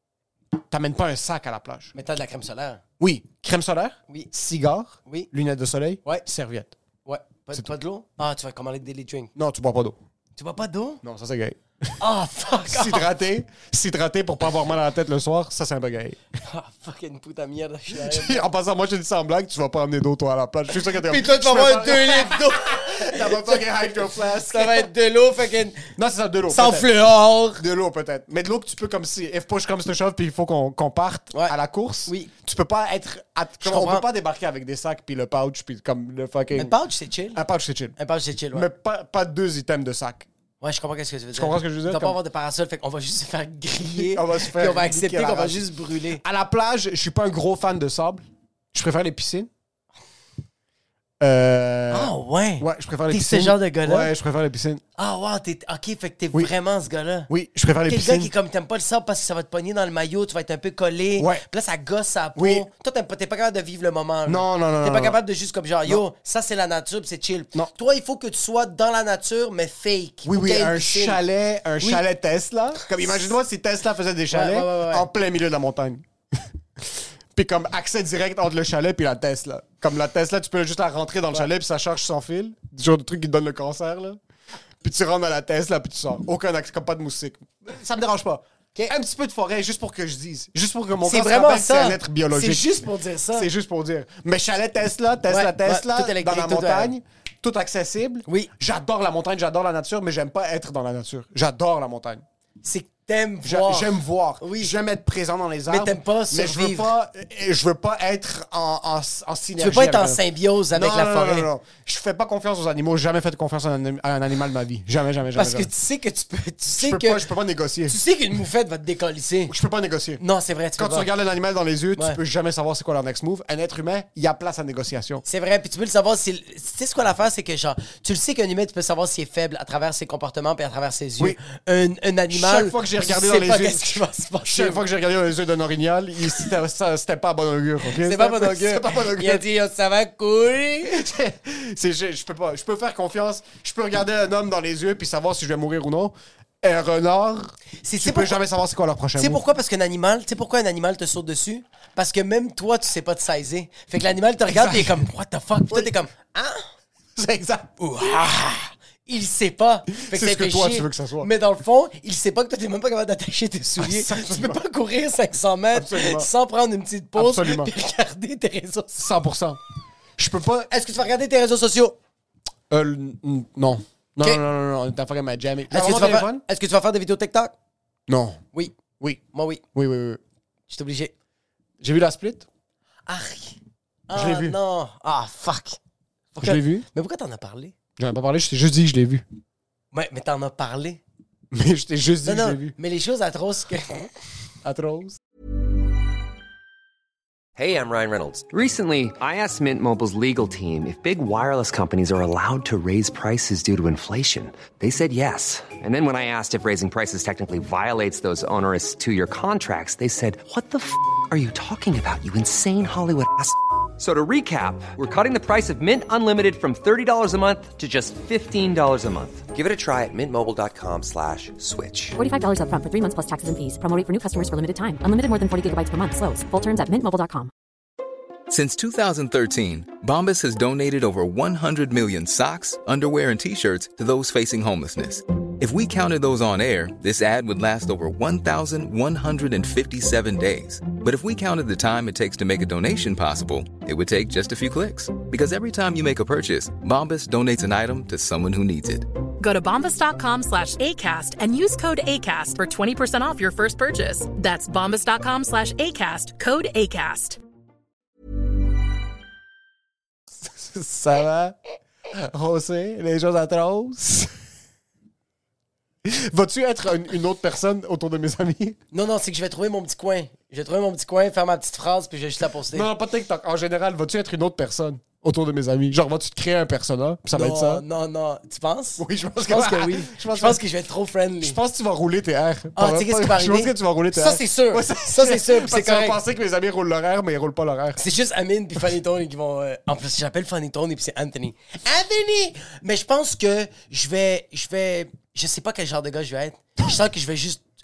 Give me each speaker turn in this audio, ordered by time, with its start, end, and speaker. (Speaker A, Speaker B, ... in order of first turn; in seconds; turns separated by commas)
Speaker A: 0.7-1.9, Speaker B: 1.9-2.8, Speaker A: 3.0-6.8, Speaker B: 7.0-9.3, Speaker A: 9.3-10.0, Speaker B: 10.4-11.0, Speaker A: 11.0-11.6, Speaker B: 12.0-13.1, Speaker A: 12.7-16.2, Speaker B: 16.4-18.5, Speaker A: 17.9-24.9, Speaker B: 20.7-25.9, Speaker A: 26.0-26.9, Speaker B: 26.5-27.6, Speaker A: 27.6-36.7, Speaker B: 31.3-32.3, Speaker B: 33.6-34.1, Speaker B: 36.6-37.4, Speaker A: 37.4-38.0, Speaker B: 38.0-38.7, Speaker A: 38.5-40.3, Speaker B: 40.6-46.2, Speaker A: 41.3-42.2, Speaker A: 44.0-45.6, Speaker A: 46.2-49.5, Speaker A: 51.2-54.8, Speaker B: 51.9-54.1, Speaker B: 55.0-57.3, Speaker A: 57.3-58.3, Speaker B: 57.9-71.2, Speaker A: 61.2-61.4, Speaker A: 62.4-62.7, Speaker A: 64.3-65.2, Speaker A: 70.2-76.0, Speaker B: 74.3-75.1, Speaker A: 76.8-84.2, Speaker A: 84.8-92.8, Speaker B: 91.0-93.5, Speaker A: 93.3-102.2, Speaker B: 95.3-97.0, Speaker B: 102.6-104.7, Speaker A: 103.4-110.2, Speaker B: 105.7-106.9, Speaker B: 109.6-111.5, Speaker A: 110.7-115.7, Speaker B: 115.3-117.3, Speaker A: 116.8-118.0, Speaker B: 117.9-119.5, Speaker A: 119.5-120.2, Speaker B: 120.2-121.1, Speaker A: 120.8-125.2, Speaker B: 125.2-134.8, Speaker A: 132.3-139.4, Speaker B: 137.9-141.1, Speaker A: 140.9-149.4, Speaker B: 147.8-148.4, Speaker B: 149.2-156.7, Speaker A: 154.5-155.1, Speaker A: 155.7-155.9, Speaker A: 157.2-157.8, Speaker B: 157.8-169.1, Speaker A: 160.0-161.3, Speaker A: 163.8-164.6, Speaker A: 165.7-166.3, Speaker A: 167.2-167.7, Speaker A: 169.0-169.6, Speaker A: 170.2-170.7, Speaker B: 170.7-172.0, Speaker A: 172.7-176.4, Speaker B: 175.7-177.5, Speaker A: 178.1-180.2, Speaker B: 178.5-178.8, Speaker B: 179.3-179.6, Speaker B: 180.7-181.1, Speaker A: 181.8-182.5, Speaker B: 183.1-183.6, Speaker B: 184.1-185.8, Speaker A: 184.1-184.6, Speaker A: 186.4-186.9, Speaker B: 186.4-187.8, Speaker A: 188.0-189.2, Speaker B: 189.9-191.0, Speaker A: 191.5-192.8, Speaker B: 192.2-194.1, Speaker A: 194.6-195.2, Speaker C: 197.6-222.2, Speaker D: 222.2-227.5, Speaker E: 228.5-249.1, Speaker F: 249.4-257.4, Speaker A: 260.4-261.6, Speaker A: 262.1-264.3, Speaker A: 266.0-268.8, Speaker B: 268.9-272.9, Speaker A: 272.7-277.8, Speaker B: 277.3-281.6, Speaker A: 279.0-280.6, Speaker A: 281.4-288.0, Speaker B: 282.8-286.2, Speaker B: 288.0-297.6